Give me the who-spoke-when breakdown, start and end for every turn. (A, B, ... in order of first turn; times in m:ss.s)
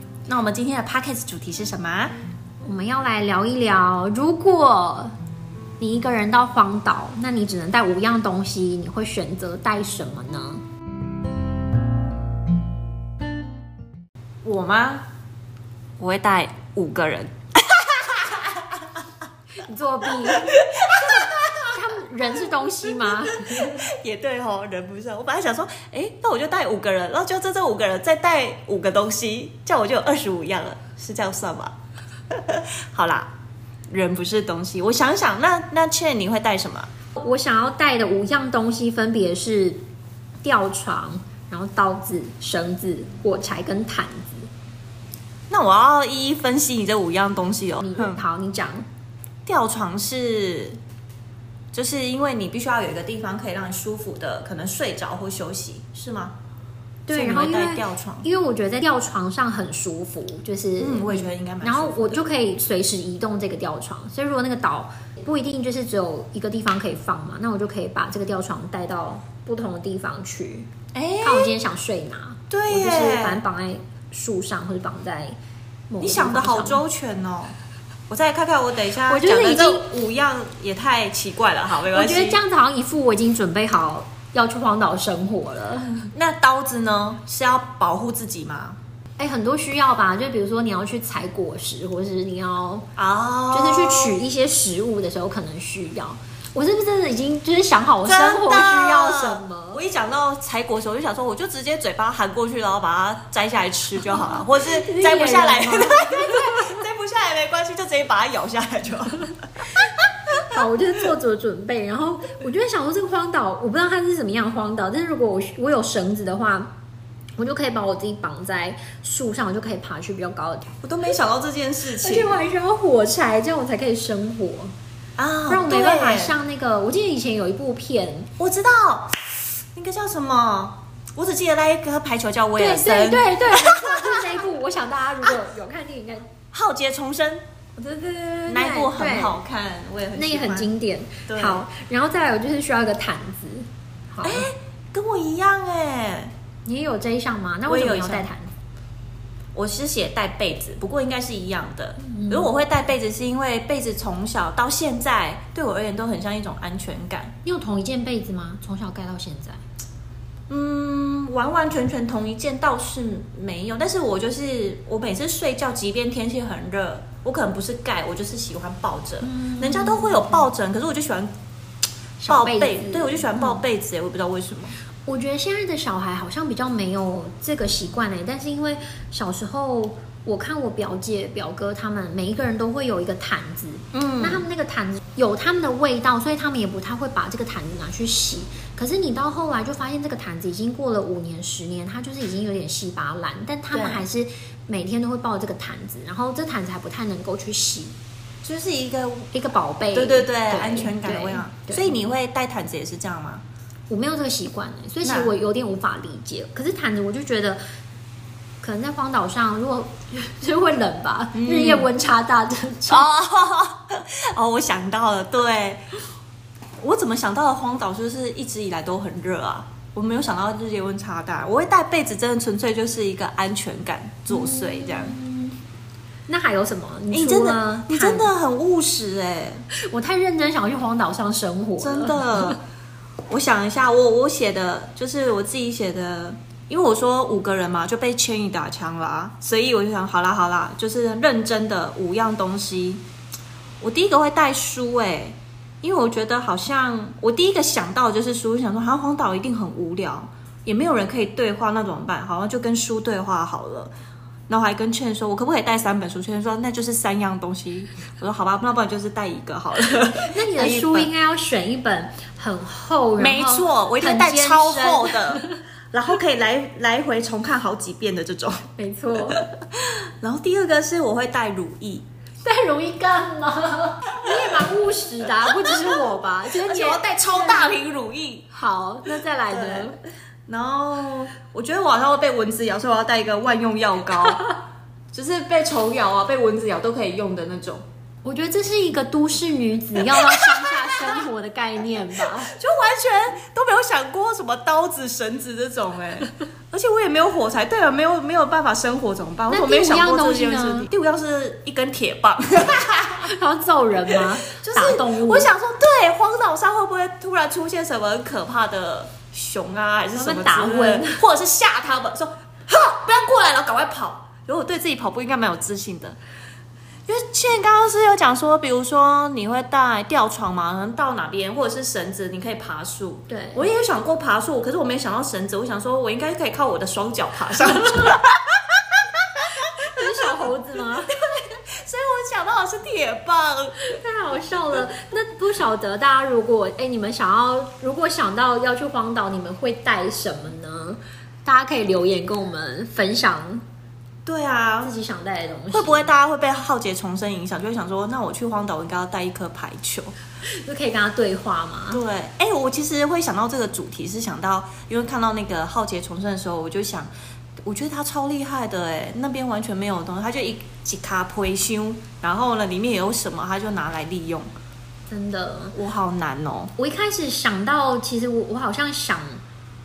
0:00.3-0:02.1 A
0:02.6-0:05.1 B
0:05.8-0:10.6 B
0:14.4-0:15.0 A
0:16.0-0:18.5 A
0:19.6-0:23.8 B
0:20.4-0:21.3 A
0:23.2-0:31.7 A
0:32.3-0:33.3 A
0:33.9-0:36.9 A
0:37.2-0:39.8 B
0:40.4-0:44.5 B
0:45.5-0:48.2 A
0:47.8-0:48.8 B
0:49.4-0:50.8 A
0:51.7-0:56.3 A
0:57.1-1:10.7 B
0:57.1-0:58.3 A
1:00.8-1:02.2 A
1:10.9-1:11.5 A
1:11.2-1:15.4 B
1:12.5-1:13.4 A
1:15.9-1:16.8 B
1:16.0-1:17.5 A
1:18.1-1:22.4 A
1:19.0-1:19.9 B
1:21.9-1:26.1 B
1:26.1-1:28.8 A
1:29.2-1:32.9 B
1:33.0-1:34.2 A
1:33.5-1:39.8 B
1:38.0-1:49.9 A
1:44.1-1:46.8 B
1:50.5-1:56.7 B
1:57.4-2:00.7 B
2:00.8-2:02.4 A
2:02.0-2:04.7 B
2:05.2-2:06.3 A
2:05.5-2:08.3 B
2:08.4-2:14.3 A
2:12.6-2:16.3 B
2:16.5-2:17.4 A
2:17.8-2:19.4 B
2:18.5-2:20.7 A
2:20.1-2:24.5 B
2:21.3-2:21.6 A
2:24.2-2:26.3 A
2:26.6-2:28.5 B
2:27.7-2:28.3 A
2:29.5-2:37.3 A
2:32.0-2:32.5 B
2:37.4-2:39.6 B
2:40.5-2:51.3 A
2:49.2-2:50.5 B
2:52.2-2:53.6 B
2:52.3-2:54.7 A
2:55.1-3:17.9 B
3:03.9-3:04.4 A
3:13.7-3:14.0 A
3:18.4-3:19.3 A
3:19.3-3:22.0 B
3:19.9-3:23.4 A
3:23.9-3:27.6 B
3:25.0-3:25.3 A
3:28.6-3:33.1 B
3:31.3-3:31.9 A
3:32.9-3:35.8 A
3:36.8-3:45.1 A
3:44.3-3:45.6 B
3:46.3-3:48.3 B
3:47.1-3:49.6 A
3:49.7-3:52.6 B
3:51.8-3:52.6 A
3:53.3-4:03.0 A
4:03.8-4:13.9 A
4:14.5-4:21.1 A
4:20.0-4:25.6 B
4:23.2-4:28.7 A
4:28.8-4:29.5 B
4:29.3-4:32.0 A
4:32.4-4:37.7 B
4:34.2-4:34.5 A
4:35.6-4:36.0 A
4:36.6-4:38.4 A
4:38.5-4:40.0 B
4:39.0-4:44.6 A
4:45.1-4:47.8 A
4:48.2-4:52.5 B
4:50.1-4:50.4 A
4:52.4-5:03.3 A
4:59.5-5:00.9 B
5:03.2-5:05.5 B
5:04.1-5:16.2 A
5:10.2-5:11.2 B
5:17.1-5:29.7 A
5:23.3-5:23.6 B
5:29.8-5:31.2 B
5:31.8-5:33.9 A
5:33.8-5:43.6 B
5:44.2-5:44.9 A
5:44.8-5:46.1 B
5:45.7-5:50.1 A
5:50.5-5:52.0 B
5:51.9-5:57.1 A
5:57.6-6:04.5 A
6:05.1-6:05.8 B
6:05.7-6:06.7 A
6:06.8-6:09.4 B